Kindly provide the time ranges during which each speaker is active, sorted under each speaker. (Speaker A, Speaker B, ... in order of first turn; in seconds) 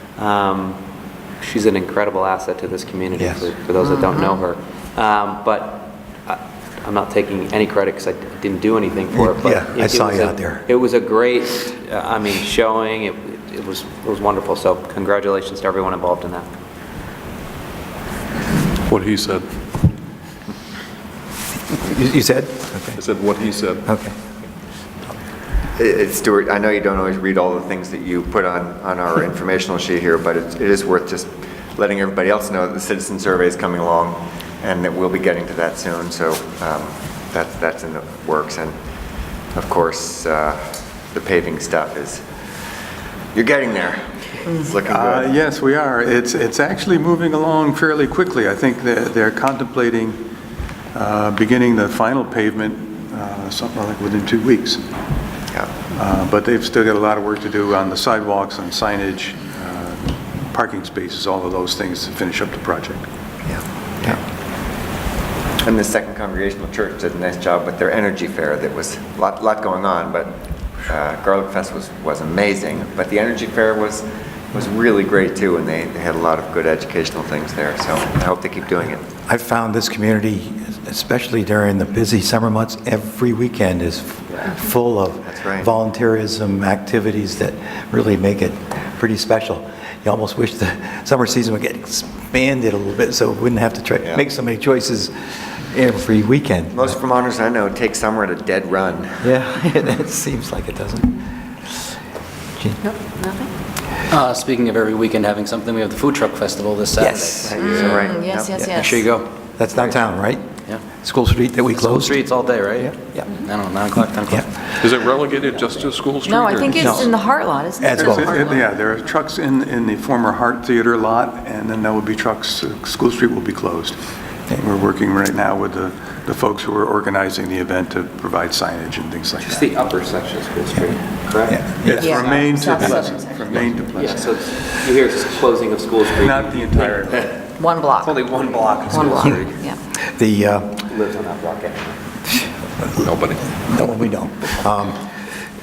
Speaker A: 0.2-0.8, 1.4-16.5, 129.4-132.2, 133.9-139.6, 140.8-142.0
Speaker B: 3.2-3.5, 9.1-10.7, 21.8-23.0, 23.8-24.1, 79.2-96.9, 99.2-101.2, 107.0-107.5, 109.6-110.5, 111.0-112.3, 112.8-113.3, 116.8-117.2, 117.8-118.4, 131.5-132.2, 140.1-140.8, 142.3-145.0
Speaker C: 18.9-19.4, 23.0-23.8, 114.8-117.1, 143.0-143.8
Speaker D: 25.8-38.8, 39.5-42.2, 43.3-45.3, 63.5-64.2, 65.6-79.0, 85.2-85.7, 96.7-99.3, 107.5-108.5
Speaker E: 44.5-44.7, 102.9-103.5, 107.6-109.0, 116.2-118.6, 132.0-133.5, 137.6-138.2, 138.9-139.8
Speaker F: 44.8-50.2, 50.9-54.8, 55.9-63.0, 117.9-124.0, 124.5-129.7, 131.8-134.4, 136.0-137.4, 138.6-139.0
Speaker G: 104.1-109.3, 111.7-114.5